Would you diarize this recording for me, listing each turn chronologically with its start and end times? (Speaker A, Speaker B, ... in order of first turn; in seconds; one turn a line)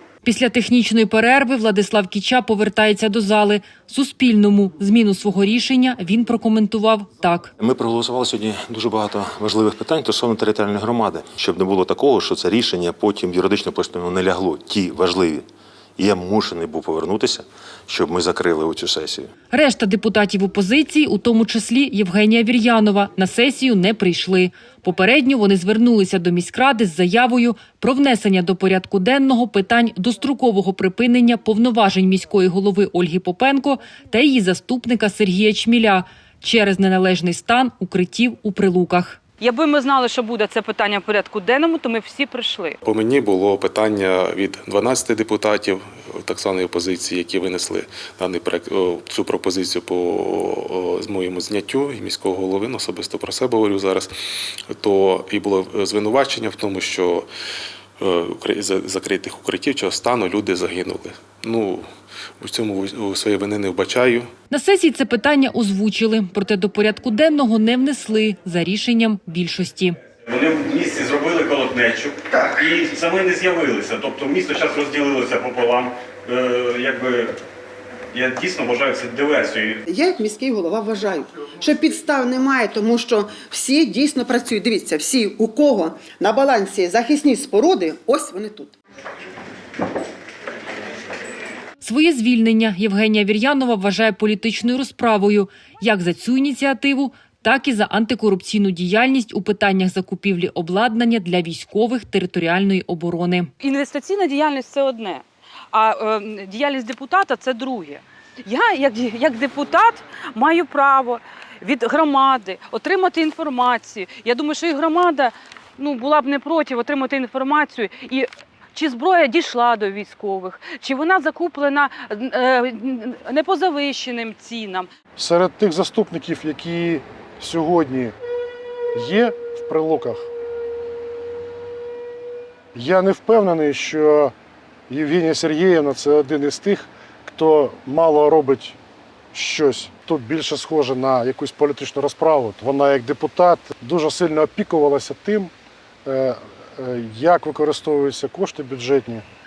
Speaker A: 0.2-7.5
Speaker B: 7.6-15.5
Speaker B: 16.0-19.3
Speaker A: 19.5-39.2
Speaker C: 39.4-42.8
Speaker D: 42.8-54.1
Speaker D: 54.7-57.3
Speaker D: 58.0-61.9
Speaker D: 62.4-64.3
Speaker A: 64.5-70.0
Speaker E: 70.3-77.3
Speaker F: 72.3-72.6
Speaker E: 78.1-79.8
Speaker F: 79.9-88.8
Speaker A: 91.8-103.5
Speaker C: 103.6-124.9
Speaker G: 125.2-128.2
Speaker G: 128.9-130.3
Speaker G: 132.7-134.3
Speaker G: 134.9-138.8
Speaker G: 139.3-145.5
Speaker G: 146.1-149.2